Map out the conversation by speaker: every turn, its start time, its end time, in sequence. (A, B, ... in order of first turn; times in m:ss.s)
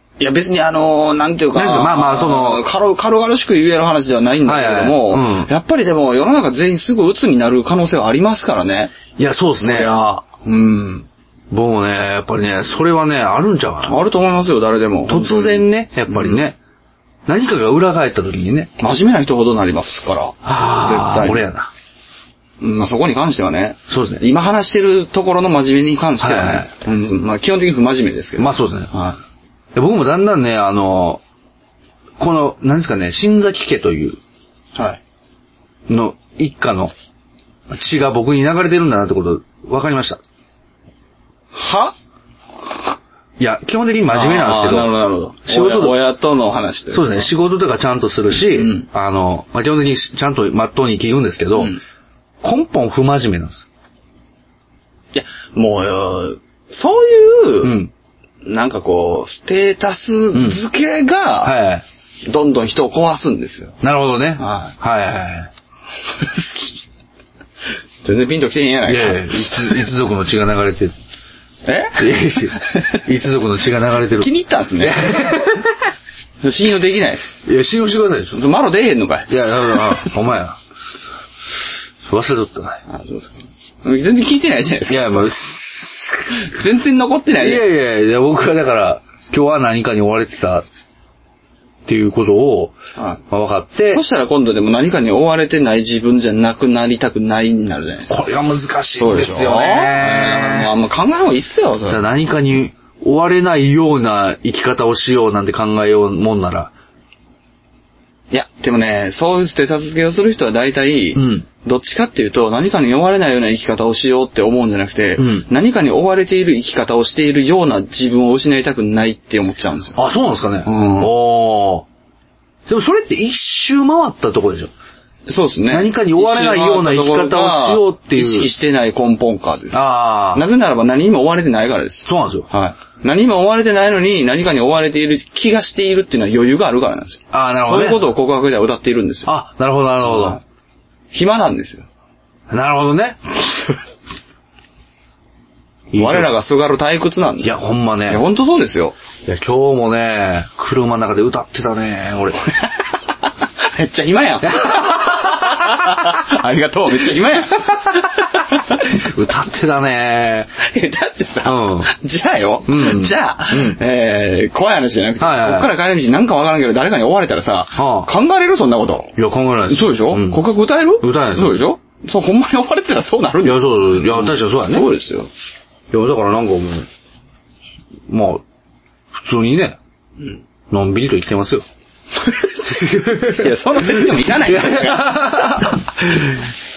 0:00.2-0:09.0 A
0:01.6-0:02.7 B
0:04.5-0:05.5 B
0:09.2-0:09.9 B
0:09.6-0:11.1 A
0:11.5-0:14.0 B
0:13.8-0:16.4 A
0:15.1-0:16.6 B
0:17.3-0:18.7 B
0:18.8-0:21.4 A
0:20.4-0:21.7 B
0:22.6-0:29.2 A
0:23.9-0:24.2 B
0:26.2-0:26.7 B
0:28.4-0:28.9 B
0:29.8-0:31.2 B
0:32.2-0:34.2 B
0:34.8-0:35.0 A
0:35.9-0:36.9 B
0:37.7-0:40.2 B
0:41.5-0:41.9 A
0:43.4-0:44.9 B
0:44.1-0:47.3 A
0:45.5-0:46.0 B
0:46.9-0:51.8 B
0:48.3-0:48.9 A
0:52.4-0:53.7 B
0:55.1-0:57.9 A
0:57.6-0:57.9 B
0:58.4-1:01.6 A
1:00.3-1:00.6 B
1:01.4-1:01.8 B
1:02.2-1:03.8 A
1:03.8-1:05.5 B
1:04.4-1:04.8 A
1:08.0-1:09.9 A
1:08.9-1:10.9 B
1:11.7-1:13.1 A
1:12.0-1:15.9 B
1:14.1-1:15.4 A
1:16.4-1:17.4 A
1:17.5-1:18.4 B
1:18.3-1:20.1 A
1:19.3-1:20.6 B
1:22.1-1:22.8 B
1:22.9-1:25.3 A
1:24.9-1:26.4 B
1:26.3-1:27.6 A
1:27.4-1:30.6 B
1:31.9-1:32.8 B
1:33.0-1:33.2 A
1:33.3-1:34.0 B
1:33.9-1:38.2 A
1:38.1-1:40.7 B
1:39.0-1:42.1 A
1:41.9-1:46.7 B
1:48.3-2:00.0 A
1:51.2-1:51.5 B
1:55.2-1:55.5 B
2:00.0-2:01.9 B
2:00.6-2:01.1 A
2:02.7-2:04.7 B
2:05.3-2:19.3 A
2:05.7-2:08.5 B
2:09.7-2:10.5 B
2:12.1-2:12.5 B
2:17.3-2:18.1 B
2:19.3-2:20.4 B
2:20.0-2:20.4 A
2:21.1-2:21.9 A
2:22.5-2:23.2 B
2:25.9-2:26.3 B
2:26.0-2:29.0 A
2:27.4-2:28.2 B
2:29.3-2:32.4 B
2:33.6-2:38.9 A
2:34.4-2:36.1 B
2:38.8-2:40.5 B
2:40.6-2:49.2 A
2:41.4-2:41.9 B
2:42.7-2:43.8 B
2:45.2-2:45.7 B
2:47.8-2:48.1 B
2:49.2-2:50.4 B
2:49.7-2:55.3 A
2:51.0-2:51.6 B
2:53.4-2:54.9 B
2:55.9-2:56.9 B
2:58.1-2:58.4 B
2:59.1-2:59.8 B
3:00.7-3:01.6 B
3:02.2-3:05.7 A
3:02.7-3:06.4 B